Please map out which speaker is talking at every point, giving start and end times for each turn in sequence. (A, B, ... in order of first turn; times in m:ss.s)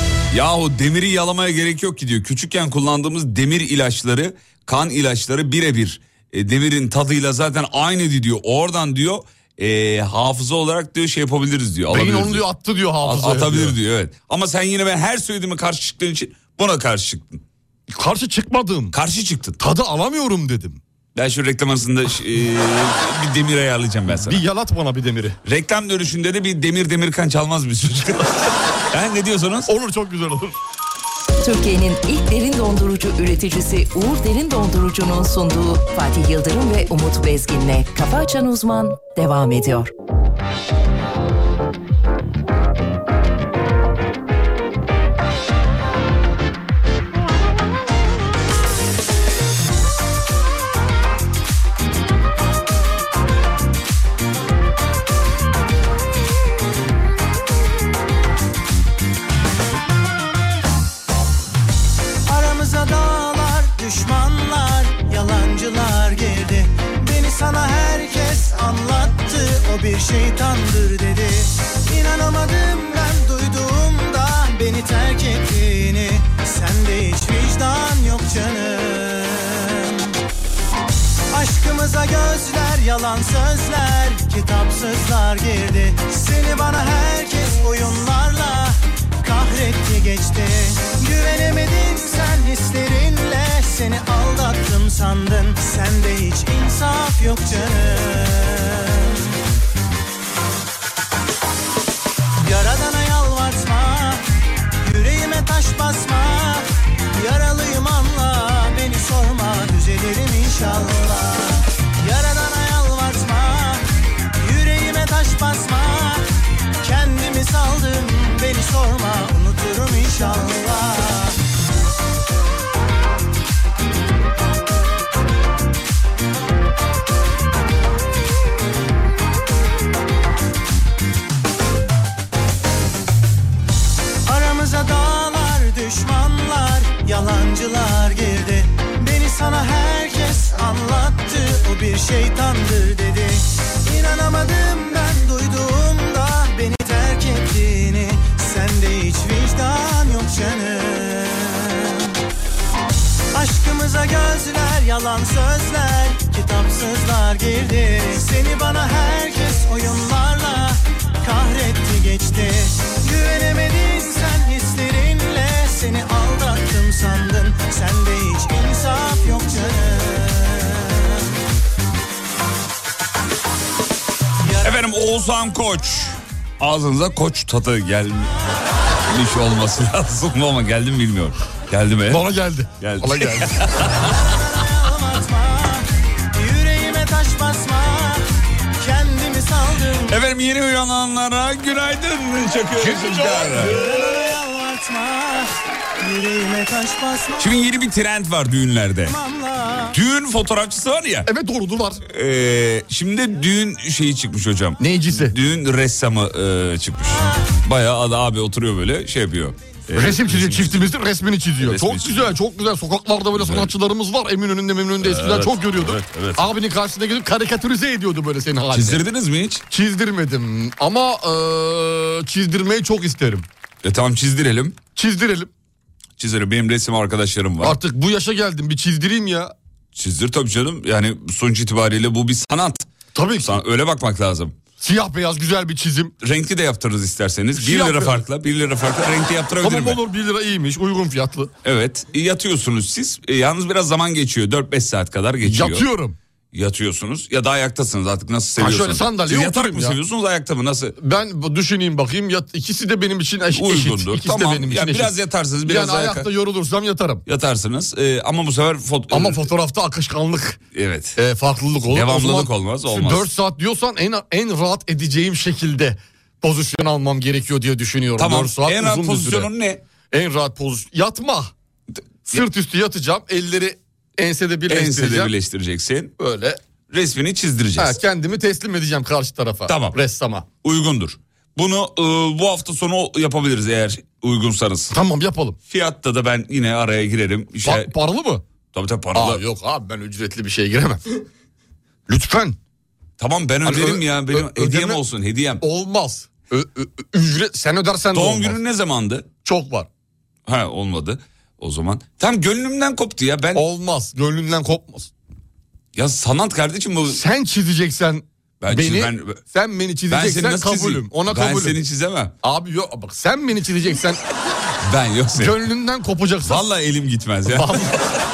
0:00.3-0:12.4 A
0:11.9-0:13.8 B
0:13.0-0:17.4 A
0:17.9-0:19.0 B
0:18.9-0:19.6 A
0:19.6-0:20.8 B
0:21.1-0:24.4 A
0:24.1-0:25.4 B
0:25.4-0:28.3 A
0:28.9-0:29.7 A
0:29.7-0:30.5 B
0:31.4-0:39.9 C
1:02.3-1:20.1 D
1:21.3-1:39.2 D
1:42.4-1:44.2 D
1:44.8-1:53.8 D
1:54.4-1:56.2 D
1:56.8-2:01.4 D
2:14.2-2:32.1 D
2:33.3-2:51.3 D
2:54.4-2:54.7 D
2:54.6-2:58.3 A
2:59.0-3:02.2 A
3:02.0-3:03.8 B
3:02.8-3:04.1 A
3:04.0-3:08.2 D
3:08.8-3:10.2 D
3:10.1-3:13.8 A
3:12.8-3:13.8 B
3:13.3-3:17.6 D
3:17.4-3:19.2 A
3:19.1-3:20.0 D
3:19.9-3:21.3 A
3:21.2-3:22.0 B
3:22.1-3:30.9 A
3:24.8-3:25.3 B
3:29.9-3:39.0 B
3:31.6-3:32.3 A
3:33.3-3:33.7 A
3:35.0-3:36.5 A
3:38.7-3:39.6 A
3:39.7-3:43.4 B
3:43.8-3:44.8 A
3:45.0-3:45.5 B
3:46.2-3:47.8 A
3:47.6-3:49.5 B
3:49.9-3:52.9 A
3:53.1-3:53.6 B
3:53.4-3:54.6 A
3:54.8-3:56.1 B
3:56.2-4:00.0 A
3:57.5-3:58.2 B
3:59.6-4:01.5 B
4:01.6-4:05.8 A
4:05.4-4:06.2 B
4:06.5-4:11.0 A
4:08.6-4:10.0 B
4:11.0-4:15.1 B
4:13.5-4:16.3 A
4:15.6-4:17.2 B
4:17.2-4:19.4 A
4:19.1-4:20.6 B
4:20.7-4:21.2 A
4:21.2-4:29.5 B
4:21.9-4:23.2 A
4:28.2-4:29.8 A
4:30.1-4:31.5 B
4:32.2-4:35.3 B
4:34.7-4:36.1 A
4:36.2-4:36.6 B
4:36.9-4:38.0 A
4:37.8-4:40.4 B
4:39.7-4:40.0 A
4:40.6-4:44.9 A
4:44.9-4:45.6 B
4:45.7-4:47.9 A
4:47.6-4:48.4 B
4:48.7-4:49.4 A
4:49.1-4:51.0 B
4:52.1-4:52.6 B
4:53.2-4:55.6 A
4:53.6-4:55.0 B
4:55.6-4:58.6 B
4:58.1-4:59.3 A
4:59.4-4:59.9 B
5:00.4-5:03.6 A
5:03.5-5:05.1 B
5:05.9-5:07.2 A
5:07.1-5:11.8 B
5:08.6-5:09.4 A
5:10.1-5:12.3 A
5:12.4-5:14.2 B
5:14.8-5:15.6 A
5:15.4-5:16.6 B
5:16.4-5:18.0 A
5:17.5-5:18.1 B